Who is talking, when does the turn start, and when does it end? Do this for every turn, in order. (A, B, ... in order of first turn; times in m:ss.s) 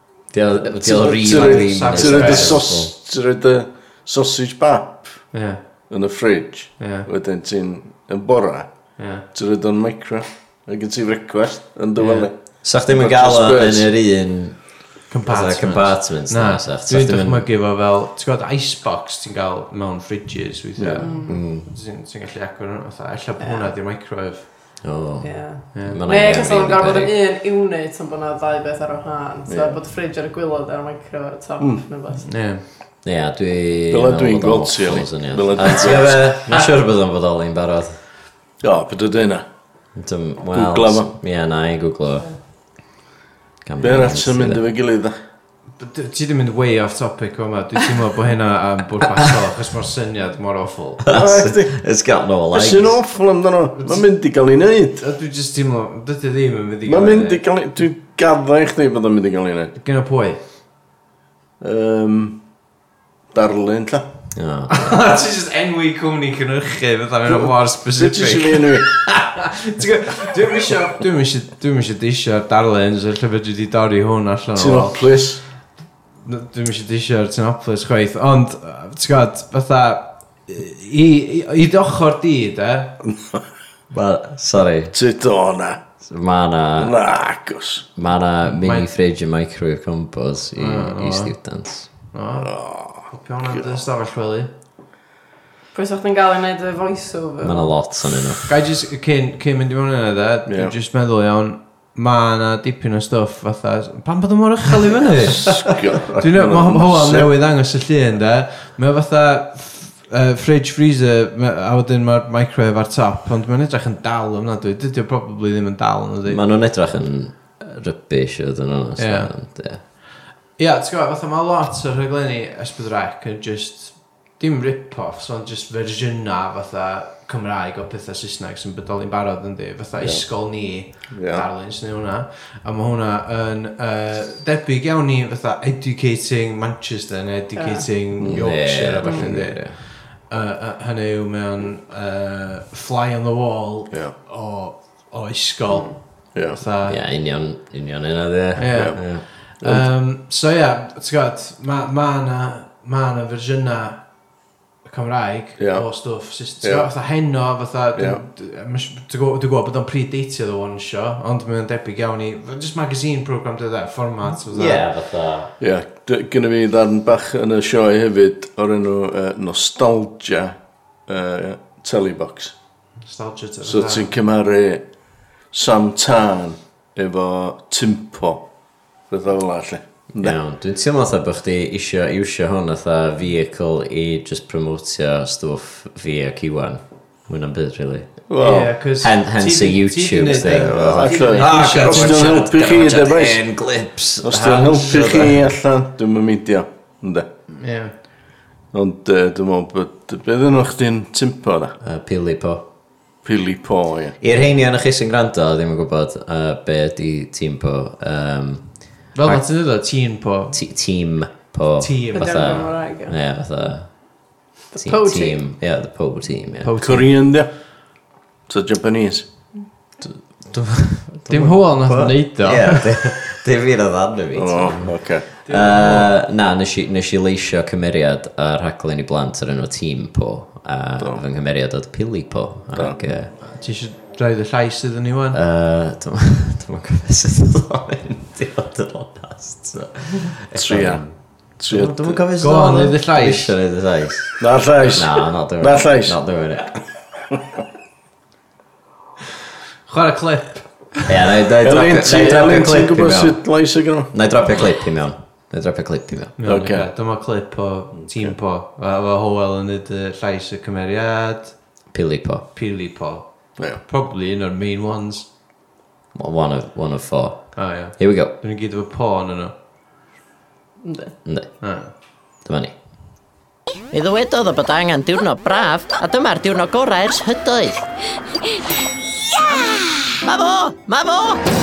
0:00.3-0:02.9 A
0:00.8-0:05.3 B
0:01.2-0:02.7 C
0:05.3-0:05.6 C
0:05.9-0:13.9 B
0:06.8-0:07.1 C
0:09.0-0:09.2 C
0:12.0-0:12.3 C
0:12.6-0:17.5 A
0:15.1-0:24.8 C
0:20.8-0:21.1 B
0:21.0-0:21.4 D
0:21.2-0:21.7 A
0:23.4-0:23.7 D
0:24.8-0:27.1 A
0:25.2-0:32.3 D
0:25.7-0:26.0 C
0:29.5-0:29.8 B
0:32.2-0:32.6 C
0:33.0-0:38.0 A
0:33.9-0:36.6 B
0:38.6-0:39.4 B
0:39.9-0:42.4 A
0:40.5-0:41.1 B
0:43.6-0:44.6 A
0:43.8-0:45.1 B
0:45.8-0:51.0 C
0:51.0-0:53.0 A
0:51.1-0:51.8 B
0:52.5-0:55.0 B
0:53.8-0:54.0 C
0:55.0-0:57.4 C
0:56.8-0:59.7 B
0:59.8-1:00.4 C
1:01.6-1:02.4 B
1:03.3-1:04.1 B
1:04.3-1:04.9 A
1:04.7-1:15.1 C
1:07.3-1:08.9 B
1:14.5-1:15.4 B
1:16.2-1:22.9 C
1:23.9-1:24.9 A
1:24.9-1:25.8 B
1:26.0-1:27.0 A
1:26.8-1:27.9 B
1:28.0-1:31.9 A
1:28.4-1:28.9 C
1:30.6-1:31.4 C
1:32.1-1:34.5 C
1:32.4-1:33.6 B
1:35.7-1:37.8 D
1:37.4-1:38.5 A
1:38.5-1:57.0 C
1:40.5-1:40.7 B
1:45.2-1:47.3 B
1:56.2-1:59.8 A
1:59.0-2:00.0 C
2:00.6-2:27.0 C
2:10.0-2:11.5 B
2:17.5-2:17.8 D
2:18.2-2:19.8 A
2:26.3-2:26.6 B
2:26.8-2:29.3 A
2:28.6-2:29.8 B
2:28.6-2:34.3 C
2:34.8-2:44.8 C
2:35.6-2:35.9 B
2:36.6-2:36.9 B
2:38.0-2:38.2 B
2:44.5-2:45.5 A
2:45.6-2:52.5 B
2:53.0-2:54.1 C
2:53.6-2:54.9 B
2:55.4-2:58.4 B
2:59.0-3:00.4 B
3:00.2-3:08.3 A
3:08.3-3:08.7 B
3:08.4-3:12.4 C
3:09.0-3:15.5 A
3:10.4-3:13.4 B
3:14.2-3:17.3 B
3:17.6-3:17.9 C
3:18.7-3:21.8 B
3:21.8-3:22.6 A
3:23.2-3:24.2 B
3:24.2-3:29.4 A
3:29.1-3:30.6 C
3:30.5-3:36.7 A
3:31.8-3:32.6 C
3:32.1-3:33.2 D
3:34.7-3:35.4 D
3:36.6-3:37.1 C
3:36.8-3:39.3 B
3:40.0-3:53.3 A
3:41.3-3:43.2 C
3:44.3-3:45.3 B
3:45.4-3:46.1 C
3:52.7-3:53.1 B
3:53.4-3:55.4 C
3:55.3-4:06.8 A
4:00.5-4:02.2 B
4:02.4-4:03.6 C
4:04.4-4:06.2 B
4:09.9-4:10.9 C
4:11.1-4:13.4 A
4:11.6-4:14.1 B
4:14.1-4:16.4 A
4:16.4-4:21.6 C
4:16.5-4:16.9 B
4:18.0-4:18.3 B
4:21.9-4:22.5 A
4:22.5-4:25.3 C
4:26.1-4:28.3 A
4:27.5-4:29.5 C
4:30.8-4:31.2 D
4:31.2-4:32.8 A
4:31.6-4:31.9 C
4:33.9-4:37.8 E
4:40.2-4:41.4 E